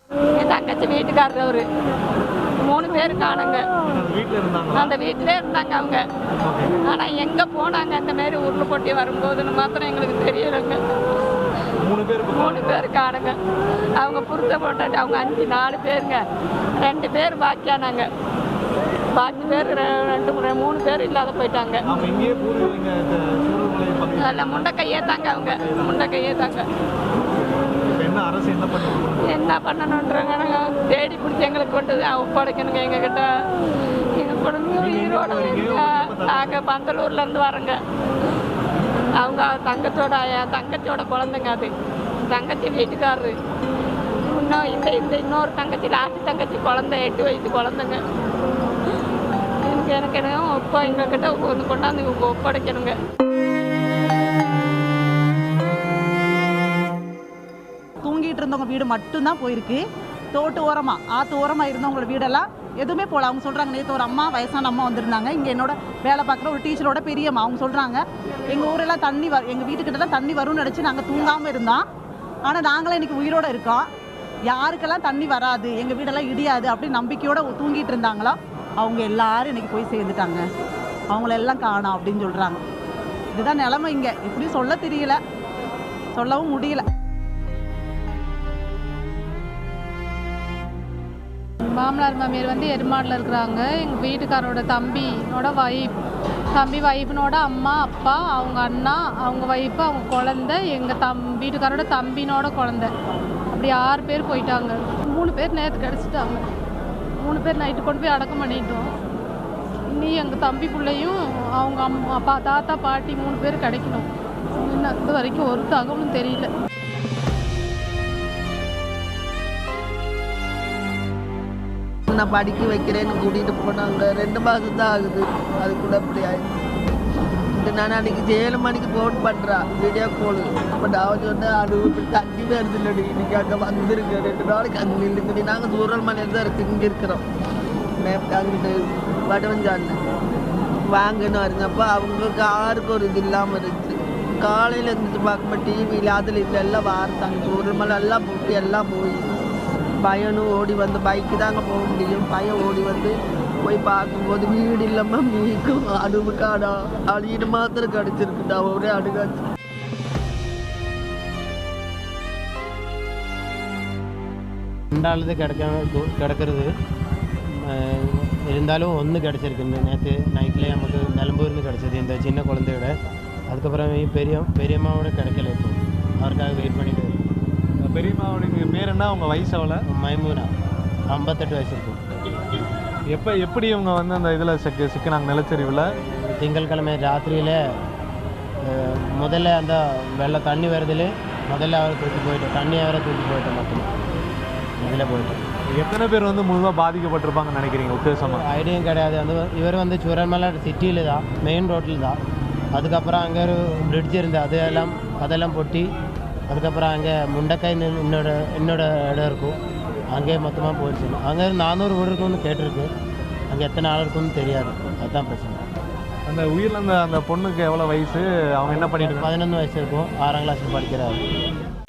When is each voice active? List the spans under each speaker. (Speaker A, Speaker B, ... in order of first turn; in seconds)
Speaker A: 0.4-1.6, 2.6-3.6, 4.7-6.0, 6.9-10.8, 12.3-13.3, 14.0-16.2, 16.8-18.1, 19.1-21.8, 24.2-26.6, 29.3-33.2, 34.2-37.8, 39.2-41.7, 42.3-43.3, 44.3-48.0, 49.6-52.9
Speaker B: 3.8-4.9, 6.4-6.7, 11.8-12.9, 21.9-24.7, 25.3-26.0, 27.9-29.4, 34.7-36.6, 177.9-179.8, 183.1-185.8, 195.8-198.4, 216.3-219.3
Speaker C: 58.0-59.8, 60.3-71.8, 72.5-73.9, 74.5-80.4, 81.1-82.6, 83.3-85.2, 86.1-86.8
Speaker D: 91.7-96.0, 96.5-102.9, 103.5-106.5, 107.2-108.9, 109.9-114.1, 114.6-116.5
Speaker E: 122.1-126.4, 127.5-137.2, 138.0-138.7, 139.3-140.0, 140.9-149.2, 150.0-159.4
Speaker F: 164.9-166.7, 167.5-172.9, 173.5-177.2, 179.9-180.5, 181.1-182.0, 186.2-187.6, 188.6-193.9, 194.8-195.4, 198.4-202.2, 202.7-205.9, 206.5-209.5, 210.1-212.9, 213.5-215.6, 219.1-221.2